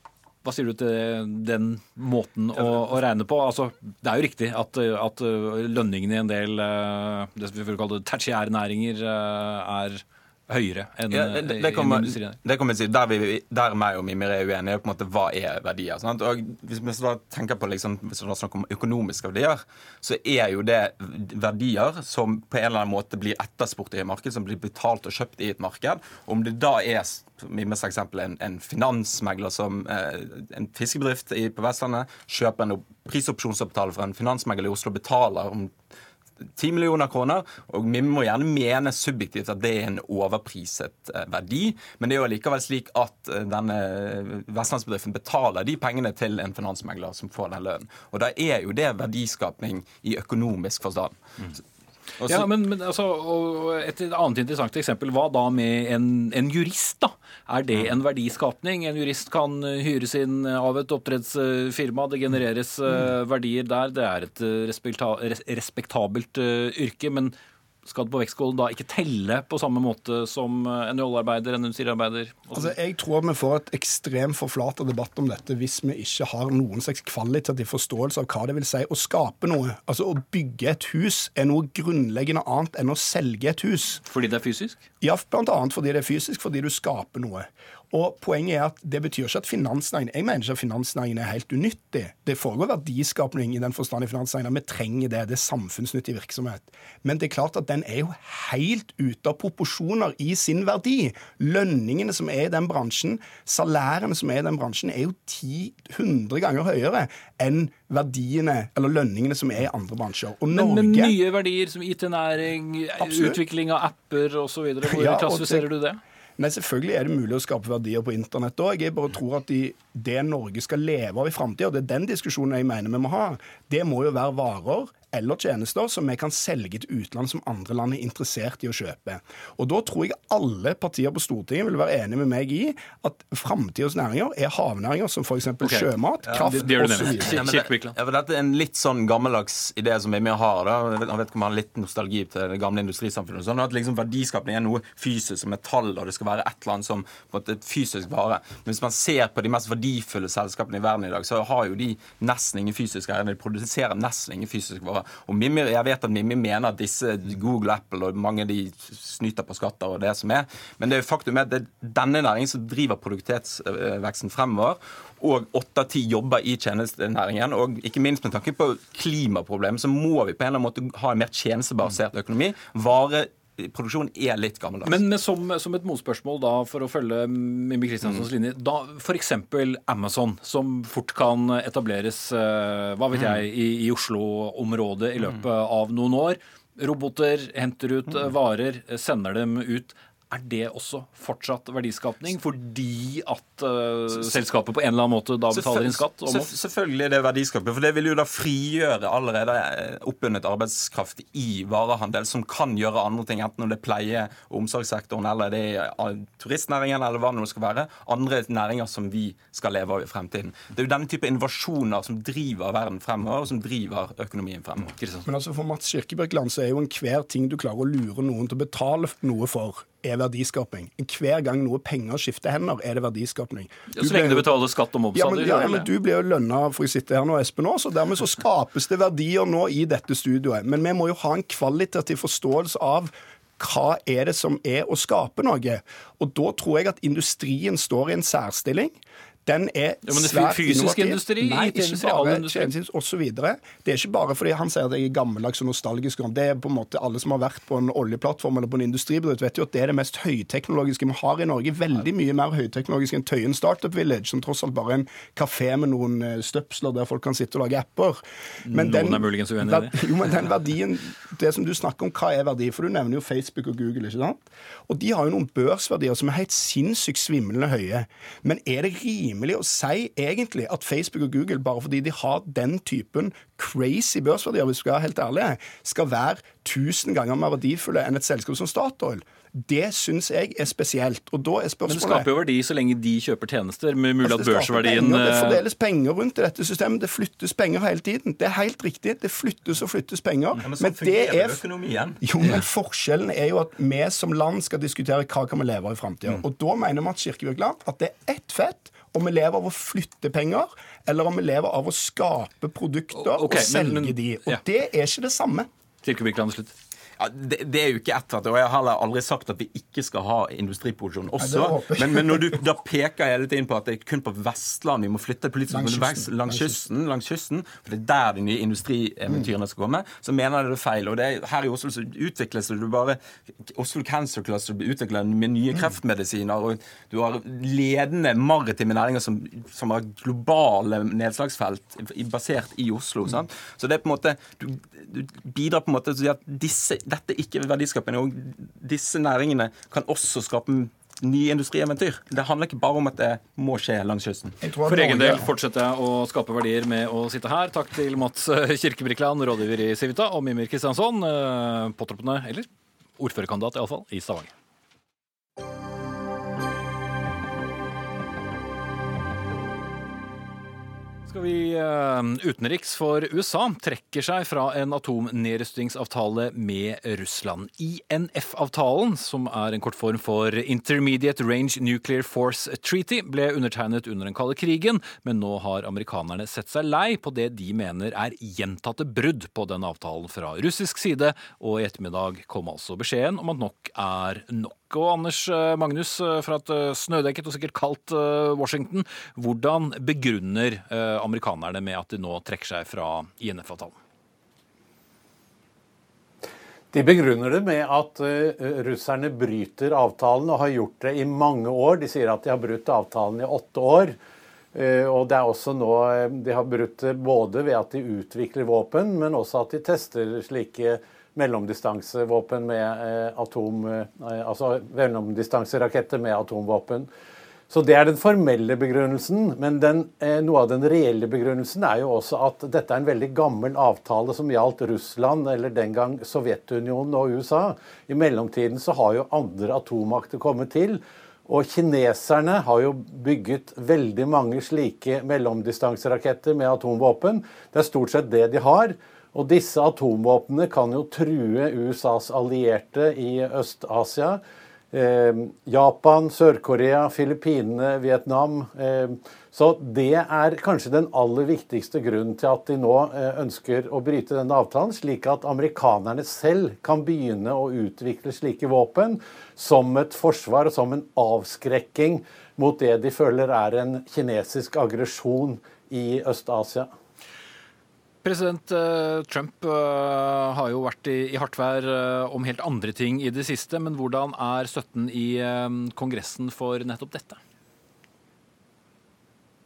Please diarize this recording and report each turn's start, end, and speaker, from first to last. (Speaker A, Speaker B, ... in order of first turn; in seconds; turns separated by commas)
Speaker A: 0.4-12.4, Speaker B: 11.1-35.7, Speaker B: 36.4-51.6, Speaker B: 52.2-52.5, Speaker A: 52.3-67.3, Speaker A: 67.8-72.7, Speaker C: 72.5-84.0, Speaker A: 84.0-84.8, Speaker C: 85.0-111.1, Speaker A: 110.5-116.0, Speaker C: 113.0-113.4, Speaker C: 114.8-115.7, Speaker C: 116.4-137.4, Speaker A: 135.6-137.9, Speaker B: 137.2-175.0, Speaker A: 174.8-196.5, Speaker B: 195.5-214.9, Speaker A: 215.0-215.2, Speaker C: 215.2-224.5, Speaker A: 223.9-225.9, Speaker C: 225.1-282.3, Speaker A: 240.1-242.7, Speaker A: 258.6-260.3, Speaker A: 281.9-285.6, Speaker C: 284.2-291.6, Speaker B: 290.6-292.2, Speaker C: 292.2-305.7, Speaker A: 303.1-304.6, Speaker A: 306.0-306.7, Speaker B: 307.2-344.6, Speaker C: 311.4-312.6, Speaker C: 315.7-316.8, Speaker C: 344.6-345.5, Speaker A: 344.9-352.7, Speaker A: 353.2-354.5, Speaker A: 361.3-394.0, Speaker D: 396.9-404.1, Speaker D: 404.7-417.1, Speaker D: 417.7-444.4, Speaker D: 444.9-466.9, Speaker A: 468.2-477.4